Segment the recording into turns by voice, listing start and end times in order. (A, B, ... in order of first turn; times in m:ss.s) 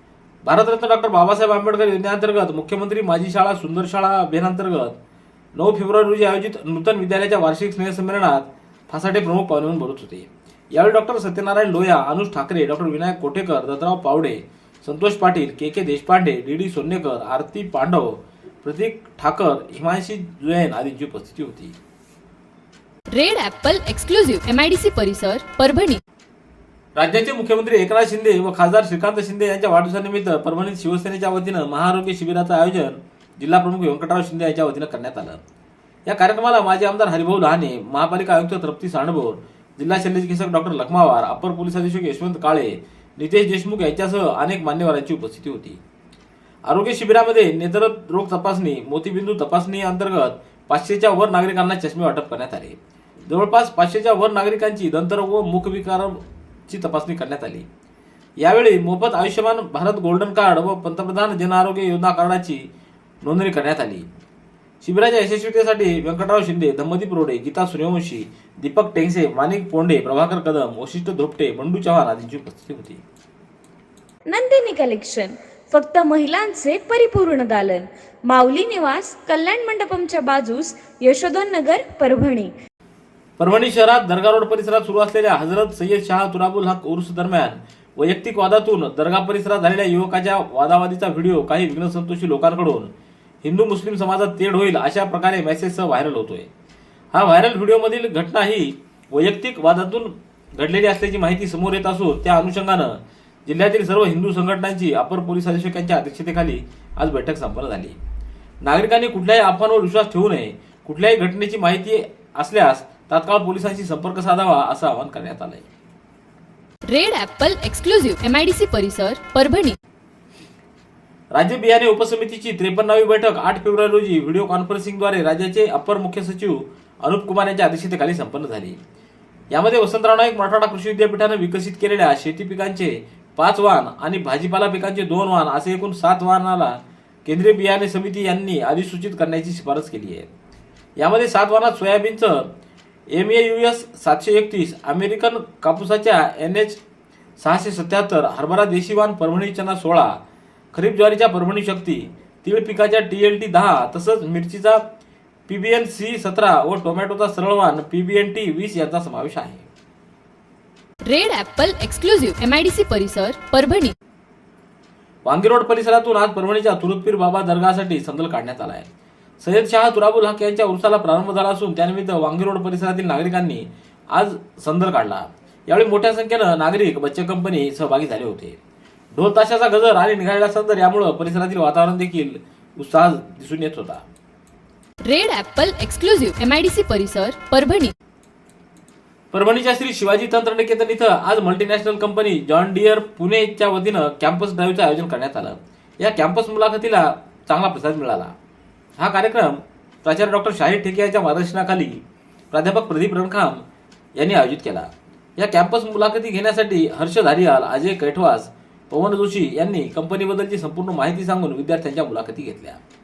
0:00.4-0:05.0 A
0:05.5-0:21.8 A
0:23.1-0:26.0 B
0:27.0-0:35.4 A
0:36.1-0:45.8 A
0:46.6-0:52.8 A
0:53.3-0:57.6 A
0:58.4-1:02.6 A
1:03.2-1:04.0 A
1:04.8-1:13.0 A
1:14.3-1:22.5 C
1:23.4-1:32.9 A
1:33.4-1:36.5 A
1:37.1-1:48.0 A
1:48.6-1:55.7 A
1:56.9-1:59.8 B
2:01.3-2:08.8 A
2:09.5-2:20.3 A
2:21.0-2:22.5 A
2:23.1-2:26.8 A
2:27.4-2:30.2 A
2:30.7-2:34.8 A
2:35.5-2:39.7 A
2:41.1-2:43.9 B
2:45.2-2:48.9 A
2:49.4-2:58.6 A
2:59.1-3:04.0 A
3:05.0-3:07.9 B
3:09.3-3:18.3 A
3:19.0-3:23.6 A
3:24.2-3:32.8 A